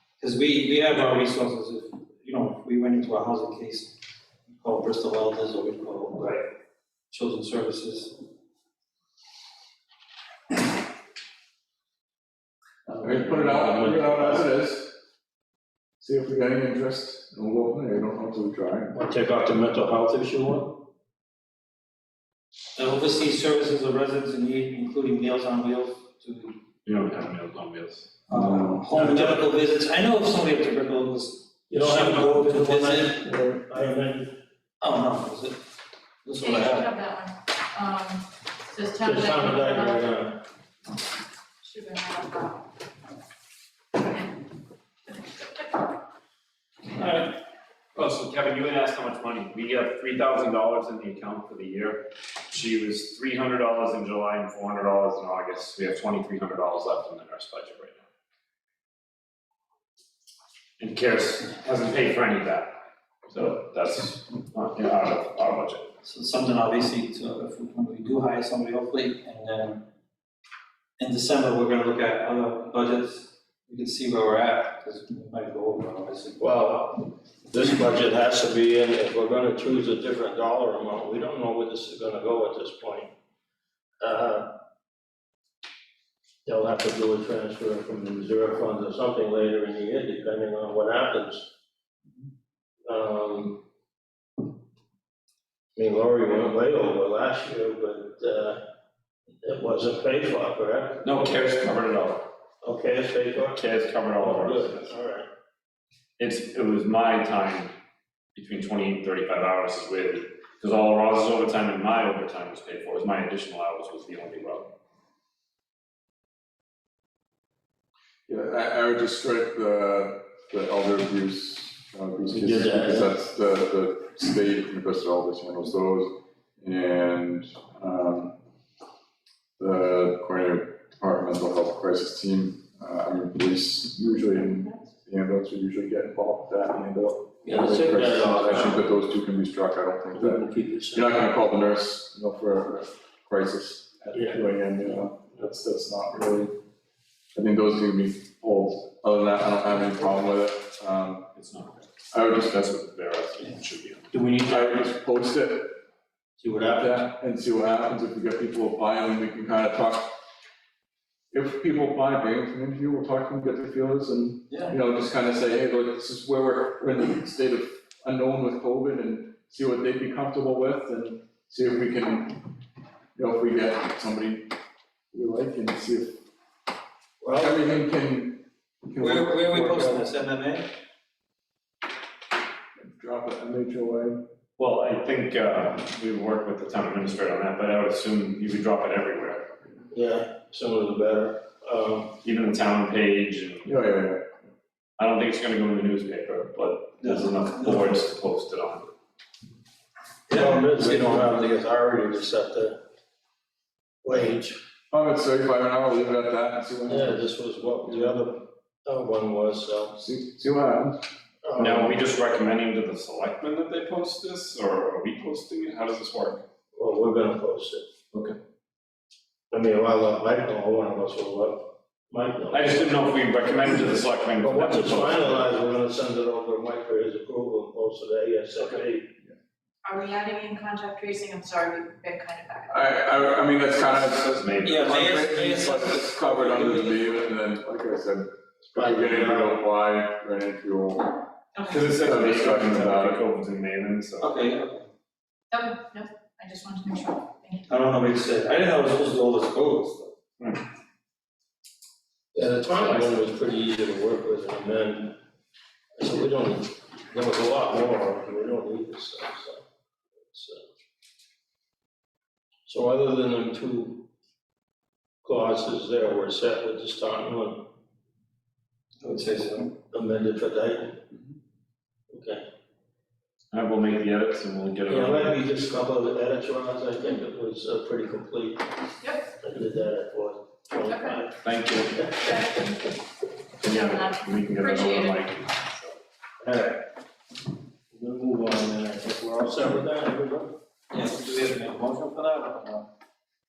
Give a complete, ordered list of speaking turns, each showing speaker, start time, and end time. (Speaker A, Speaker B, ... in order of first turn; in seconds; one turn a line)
Speaker A: 0.2-3.9
Speaker A: 4.5-6.4
Speaker A: 7.1-8.1
Speaker B: 12.9-14.5
Speaker C: 13.0-14.9
Speaker C: 16.0-18.9
Speaker B: 18.9-20.8
Speaker A: 22.7-26.5
Speaker D: 26.8-28.1
Speaker A: 28.3-33.3
Speaker C: 28.3-29.1
Speaker B: 28.9-29.3
Speaker B: 31.7-34.3
Speaker A: 34.8-35.6
Speaker A: 36.3-36.9
Speaker E: 36.4-40.1
Speaker B: 36.4-36.7
Speaker B: 39.0-40.4
Speaker E: 41.6-42.7
Speaker D: 46.9-47.4
Speaker D: 48.0-58.0
Speaker D: 60.8-62.7
Speaker D: 63.3-65.9
Speaker A: 66.0-69.8
Speaker A: 71.0-76.5
Speaker B: 76.4-83.1
Speaker B: 84.0-84.5
Speaker B: 86.5-91.5
Speaker B: 92.9-93.6
Speaker B: 95.8-98.6
Speaker B: 99.4-101.0
Speaker D: 101.0-102.3
Speaker B: 102.6-103.6
Speaker D: 103.5-105.0
Speaker B: 104.2-105.3
Speaker D: 106.2-107.7
Speaker D: 108.3-114.7
Speaker C: 118.3-128.3
Speaker B: 122.3-123.1
Speaker C: 129.6-146.5
Speaker B: 137.4-138.8
Speaker B: 140.1-141.1
Speaker B: 144.1-144.4
Speaker C: 147.3-151.3
Speaker D: 151.3-151.9
Speaker C: 152.1-152.8
Speaker D: 152.4-154.1
Speaker A: 154.1-154.8
Speaker C: 154.4-155.7
Speaker B: 156.4-156.9
Speaker C: 156.6-160.1
Speaker C: 161.3-172.4
Speaker A: 164.5-164.8
Speaker C: 173.2-174.5
Speaker C: 175.1-176.2
Speaker B: 177.2-177.7
Speaker C: 177.3-180.1
Speaker A: 179.0-180.7
Speaker C: 182.8-184.2
Speaker D: 184.6-189.5
Speaker B: 189.9-192.2
Speaker D: 192.2-193.7
Speaker C: 193.6-194.2
Speaker D: 195.0-198.9
Speaker A: 197.0-198.0
Speaker A: 200.3-201.3
Speaker B: 200.3-202.8
Speaker B: 204.0-204.6
Speaker C: 204.9-207.2
Speaker B: 206.9-210.1
Speaker C: 210.0-211.0
Speaker B: 211.4-212.0
Speaker D: 211.6-216.4
Speaker B: 216.7-217.8
Speaker B: 219.5-223.0
Speaker D: 222.5-225.5
Speaker B: 224.4-229.1
Speaker E: 229.8-233.4
Speaker C: 232.7-241.2
Speaker D: 234.2-235.2
Speaker A: 234.6-237.0
Speaker B: 238.7-239.6
Speaker E: 241.5-241.9
Speaker D: 241.7-244.3
Speaker C: 241.9-243.2
Speaker A: 244.2-244.9
Speaker E: 245.5-247.6
Speaker A: 247.7-250.1
Speaker B: 252.3-255.2
Speaker B: 256.0-259.6
Speaker B: 260.3-260.6
Speaker B: 262.7-264.1
Speaker B: 265.2-267.6
Speaker A: 269.0-269.7
Speaker B: 269.9-271.0
Speaker B: 272.1-272.4
Speaker D: 273.5-275.4
Speaker B: 274.9-278.7
Speaker E: 279.0-279.4
Speaker B: 279.4-281.3
Speaker E: 280.8-281.2
Speaker D: 281.4-282.1
Speaker E: 282.1-283.0
Speaker E: 283.6-285.3
Speaker D: 283.6-286.0
Speaker B: 286.4-286.8
Speaker B: 287.9-290.6
Speaker A: 290.9-292.9